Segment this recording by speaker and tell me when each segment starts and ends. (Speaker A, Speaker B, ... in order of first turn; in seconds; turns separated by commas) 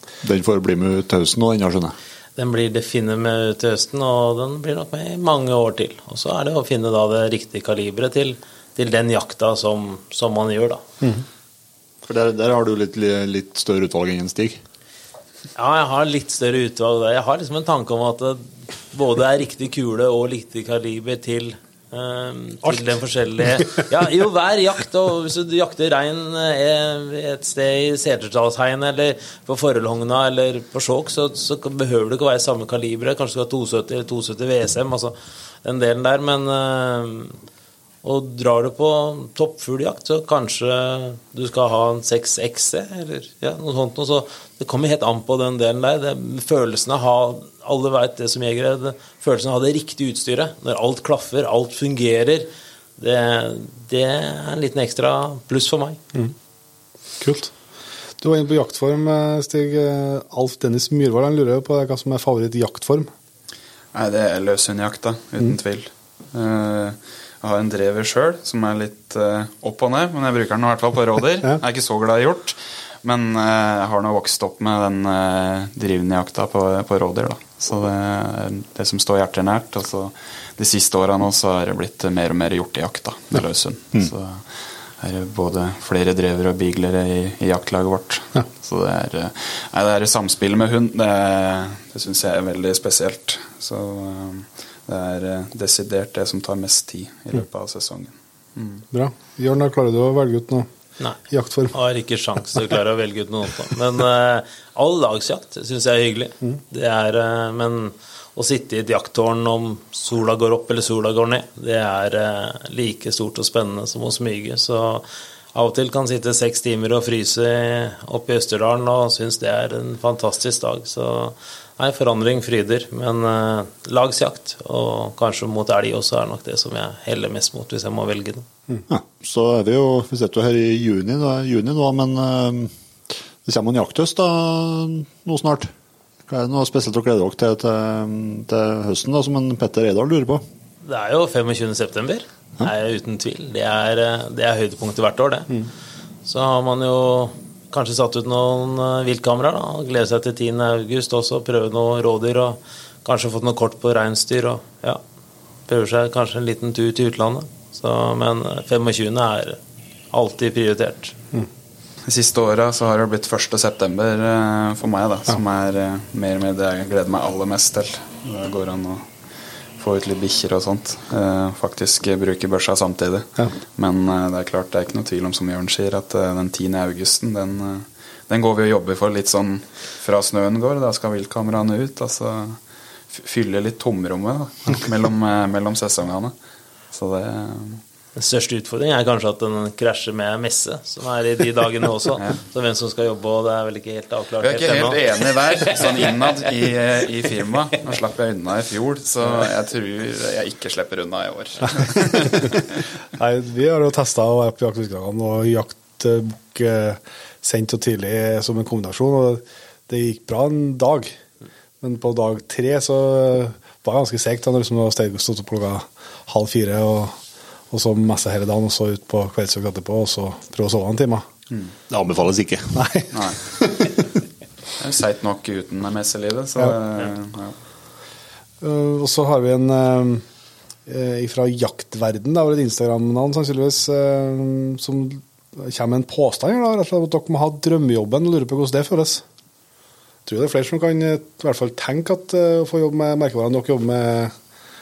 Speaker A: 0.2-1.9, Speaker B: 2.4-10.8, Speaker A: 12.0-14.6, Speaker B: 15.6-37.4, Speaker B: 38.0-56.0, Speaker C: 57.2-57.5, Speaker C: 58.2-63.1, Speaker D: 63.9-98.8, Speaker C: 98.9-100.7, Speaker C: 101.3-101.7, Speaker B: 101.7-128.4, Speaker A: 128.9-132.7, Speaker A: 133.4-135.7, Speaker A: 136.3-140.4, Speaker B: 140.8-145.6, Speaker B: 146.2-155.0, Speaker B: 155.7-159.6, Speaker B: 160.1-161.2, Speaker D: 162.1-169.1, Speaker D: 169.8-182.6, Speaker D: 183.1-186.3, Speaker D: 186.9-187.8, Speaker B: 188.2-195.7, Speaker D: 194.4-202.8, Speaker C: 203.2-211.1, Speaker C: 211.8-217.2, Speaker C: 217.7-221.3, Speaker A: 221.9-222.8, Speaker C: 222.7-223.9, Speaker D: 223.1-223.4, Speaker D: 224.8-227.6, Speaker C: 228.6-230.2, Speaker C: 230.9-239.2, Speaker C: 240.2-244.3